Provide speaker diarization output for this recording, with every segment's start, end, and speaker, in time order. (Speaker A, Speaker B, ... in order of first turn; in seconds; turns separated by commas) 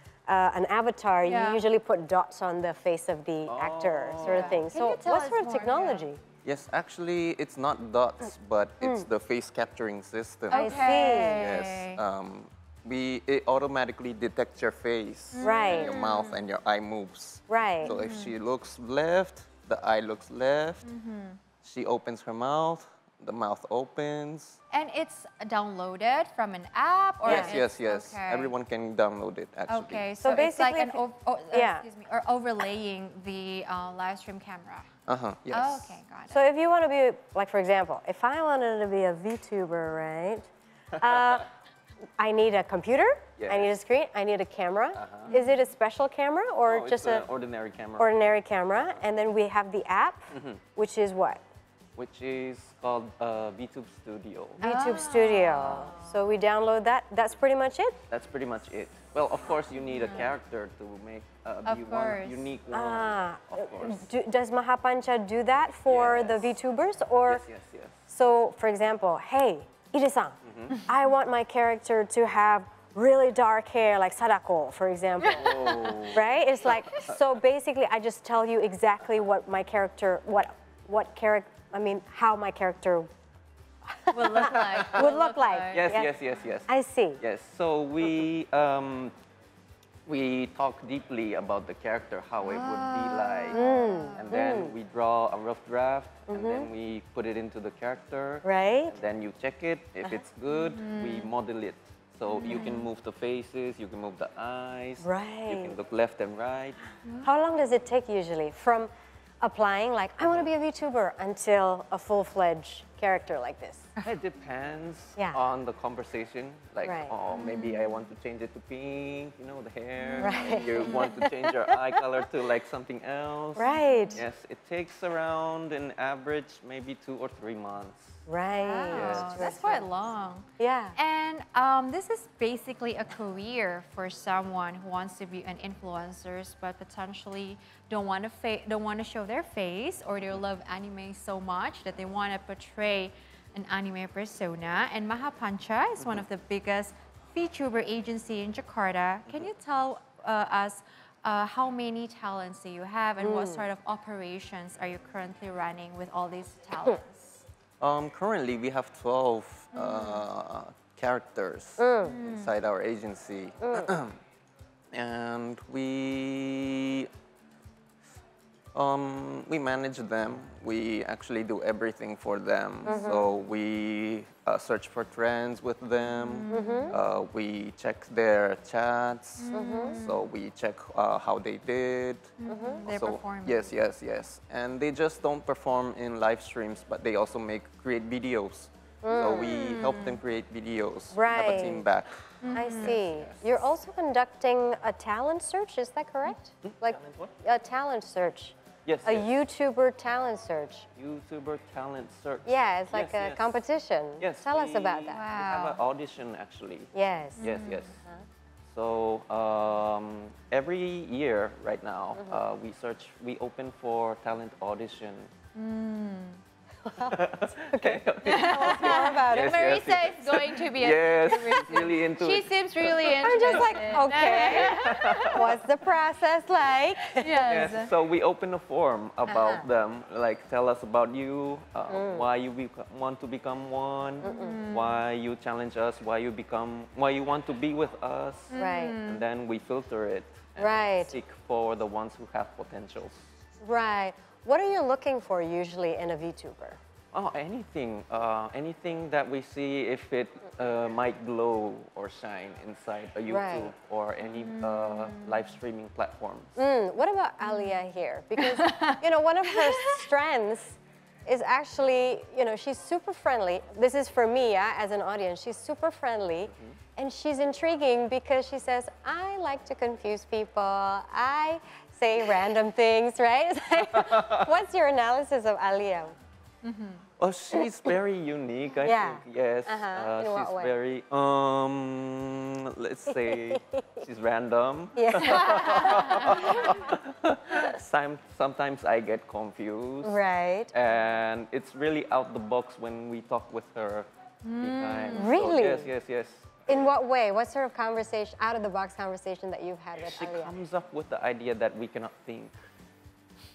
Speaker A: 0.3-6.2, Speaker B: 1.3-1.6, Speaker C: 3.5-4.6, Speaker B: 4.2-6.1, Speaker C: 6.4-20.9, Speaker A: 8.8-9.1, Speaker A: 10.5-11.5, Speaker B: 10.5-12.0, Speaker B: 15.4-16.4, Speaker A: 15.4-15.9, Speaker A: 17.5-17.9, Speaker B: 17.9-18.3, Speaker B: 20.8-21.4, Speaker C: 21.6-24.6, Speaker B: 24.7-28.6, Speaker C: 27.2-30.1, Speaker A: 27.3-27.6, Speaker B: 29.7-34.9, Speaker A: 30.2-31.0, Speaker A: 31.5-31.9, Speaker C: 35.1-36.0, Speaker B: 35.5-36.4, Speaker A: 36.3-40.5, Speaker A: 41.0-41.5, Speaker C: 41.0-41.5, Speaker A: 42.2-47.2, Speaker C: 43.4-43.7, Speaker C: 45.0-45.4, Speaker B: 45.3-45.6, Speaker C: 46.6-49.0, Speaker A: 48.0-51.4, Speaker C: 50.3-50.6, Speaker C: 52.0-54.6, Speaker A: 54.6-58.0, Speaker B: 54.6-56.2, Speaker C: 58.1-64.1, Speaker B: 59.8-60.3, Speaker B: 61.6-62.5, Speaker A: 62.7-67.5, Speaker C: 65.9-66.6, Speaker C: 67.3-68.0, Speaker A: 68.1-83.1, Speaker C: 70.5-70.8, Speaker C: 75.2-77.2, Speaker B: 75.2-75.9, Speaker A: 83.9-86.1, Speaker B: 84.1-86.0, Speaker C: 84.5-85.0, Speaker C: 85.7-89.1, Speaker A: 86.7-87.2, Speaker C: 90.1-93.6, Speaker B: 92.4-94.3, Speaker A: 93.5-94.7, Speaker C: 94.2-106.8, Speaker A: 96.3-96.7, Speaker A: 98.4-99.0, Speaker B: 100.5-101.3, Speaker B: 102.3-102.9, Speaker A: 105.0-105.8, Speaker B: 107.0-107.3, Speaker A: 107.2-113.9, Speaker C: 110.2-110.5, Speaker C: 114.0-128.2, Speaker A: 116.8-117.1, Speaker B: 117.3-118.0, Speaker B: 120.0-121.3, Speaker A: 120.2-121.5, Speaker A: 123.6-124.2, Speaker B: 123.6-124.2, Speaker A: 128.3-130.1, Speaker B: 128.6-157.4, Speaker C: 128.9-129.4, Speaker A: 130.6-131.0, Speaker A: 153.2-153.7, Speaker C: 157.8-164.2, Speaker B: 159.7-160.2, Speaker A: 161.8-162.2, Speaker B: 162.1-162.5, Speaker A: 163.6-163.9, Speaker C: 164.9-167.1, Speaker C: 168.7-193.6, Speaker A: 172.8-173.3, Speaker B: 176.1-176.9, Speaker A: 176.5-176.9, Speaker B: 179.4-180.2, Speaker A: 179.5-180.0, Speaker B: 182.4-183.7, Speaker A: 182.5-182.9, Speaker A: 189.0-189.5, Speaker B: 189.1-190.2, Speaker A: 191.1-191.9, Speaker B: 192.4-193.0, Speaker A: 192.5-200.9, Speaker C: 196.6-197.4, Speaker C: 198.8-199.3, Speaker C: 201.0-203.6, Speaker A: 202.5-205.2, Speaker C: 204.2-208.0, Speaker B: 205.1-205.8, Speaker A: 206.9-207.5, Speaker B: 207.4-207.9, Speaker C: 208.7-215.3, Speaker A: 212.2-212.4, Speaker B: 215.6-216.4, Speaker A: 216.9-217.2, Speaker C: 217.1-225.5, Speaker A: 217.7-219.7, Speaker B: 218.2-225.4, Speaker A: 223.1-227.4, Speaker B: 227.2-227.9, Speaker C: 227.5-243.3, Speaker A: 229.3-229.7, Speaker A: 231.9-232.3, Speaker A: 234.2-234.6, Speaker B: 234.2-235.0, Speaker B: 238.5-239.2, Speaker A: 238.6-239.0, Speaker A: 240.6-241.2, Speaker A: 243.6-246.8, Speaker C: 247.1-256.6, Speaker A: 253.3-253.7, Speaker B: 254.2-255.5, Speaker A: 256.6-276.1, Speaker B: 257.4-257.7, Speaker B: 258.4-260.1, Speaker C: 266.5-266.8, Speaker C: 273.9-274.5, Speaker B: 276.6-277.1, Speaker C: 277.2-290.2, Speaker A: 278.8-280.7, Speaker A: 283.2-284.0, Speaker A: 285.0-286.7, Speaker B: 285.2-286.8, Speaker A: 290.0-290.7, Speaker C: 290.7-296.6, Speaker B: 294.4-295.4, Speaker A: 295.1-295.9, Speaker A: 296.7-300.6, Speaker C: 300.0-302.6